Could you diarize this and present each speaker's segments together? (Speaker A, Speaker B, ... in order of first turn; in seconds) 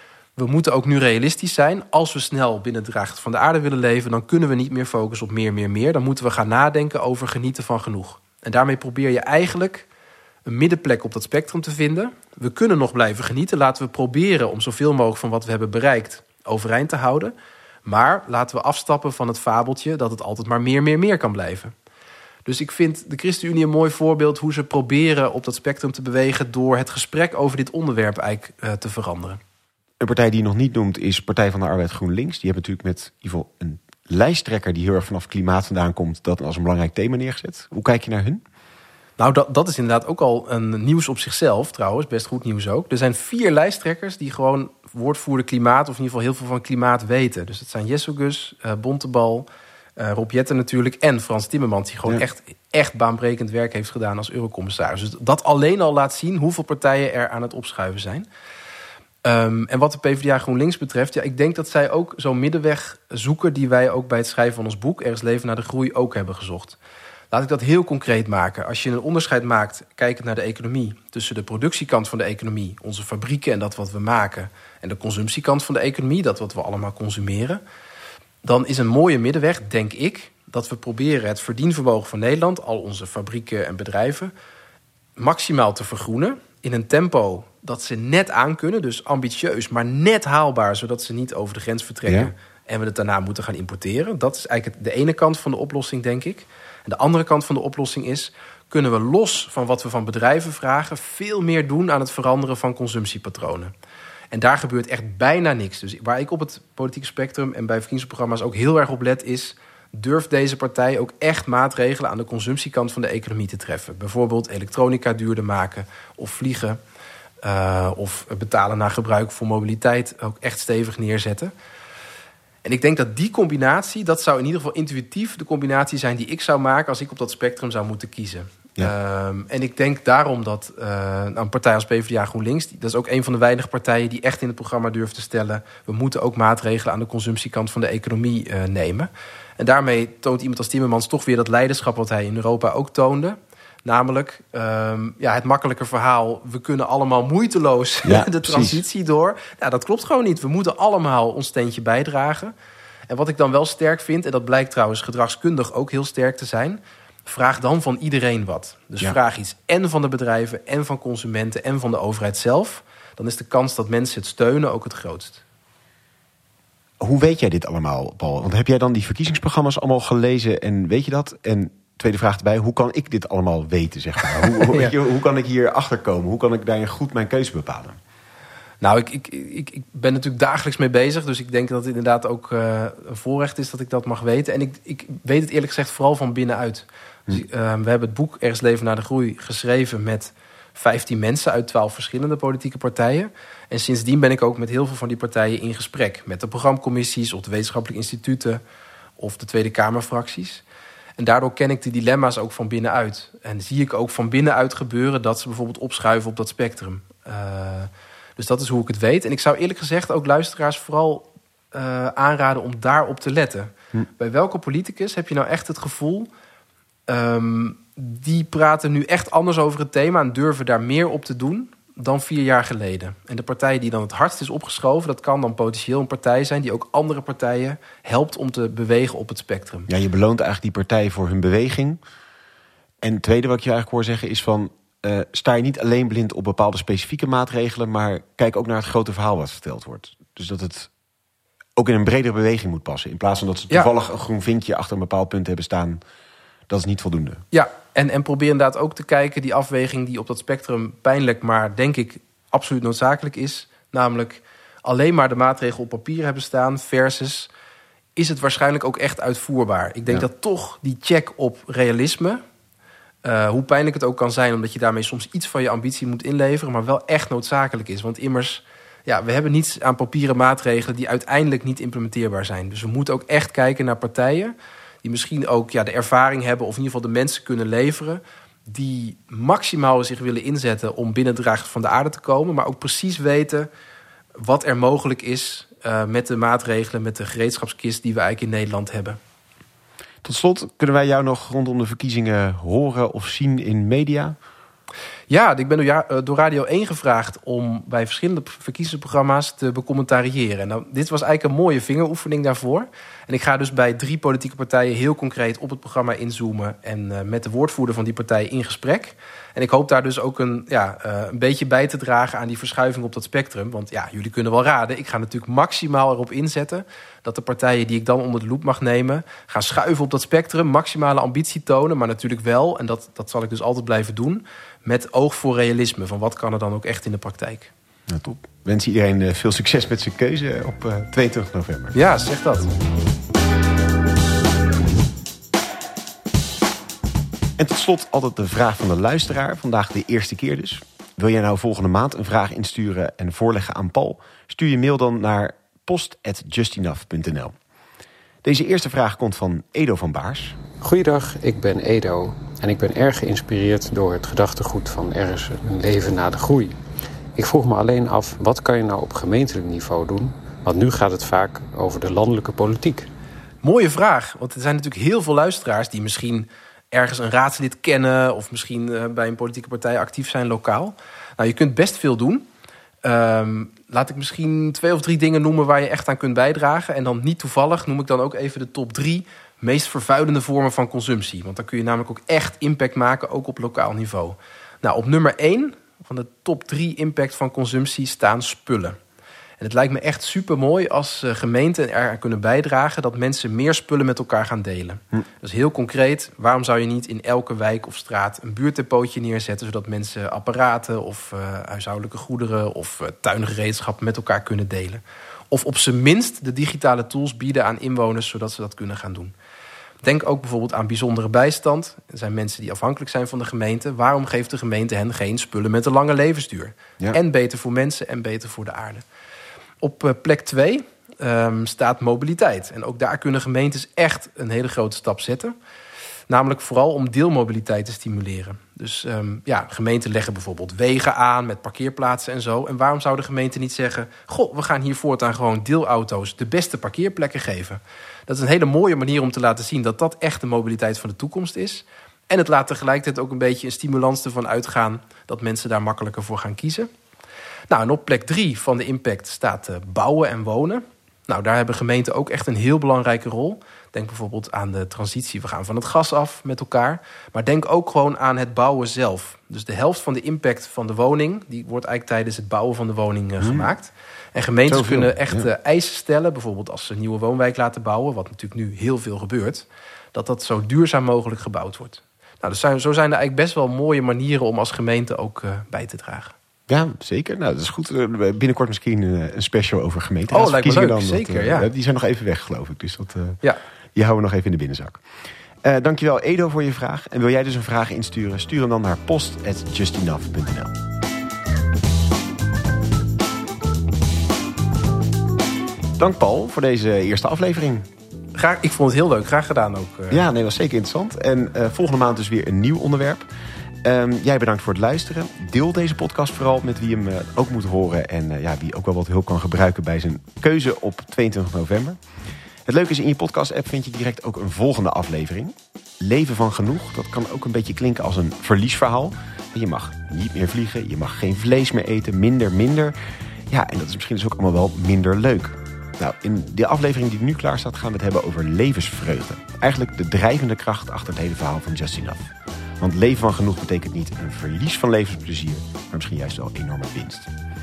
Speaker A: 0.4-9.9, 10.4-17.3, 17.9-21.7, 22.4-29.4, 39.2-58.3, 59.2-66.8, 67.3-77.6, 78.4-84.3, 85.2-103.7, 104.3-116.8, 117.4-121.5, 122.6-152.5, 153.1-165.4, 174.4-174.9, 178.8-198.6, 199.2-200.6, 201.2-216.3, 217.1-229.9, 247.5-257.5, 258.1-262.4, 263.2-283.7, 284.4-289.2, 295.3-327.7, 331.9-332.7, 363.6-372.4, 373.0-389.0, 389.6-409.3, 410.0-419.0, 419.8-425.5, 426.3-446.9, 447.7-476.4, 480.3-481.7, 498.4-500.2
Speaker B: 30.0-38.4, 92.1-92.3, 148.0-148.8, 167.0-177.9, 229.9-232.0, 233.0-240.9, 241.8-246.0, 246.7-247.4, 290.2-294.4, 328.1-331.9, 337.6-347.5, 348.4-350.6, 463.4-463.7, 464.7-465.5, 476.7-483.4, 483.9-485.0, 485.6-490.8, 496.0-497.9, 500.1-503.2, 503.8-512.0, 512.6-522.9, 523.5-537.3
Speaker C: 350.8-356.8, 357.4-363.1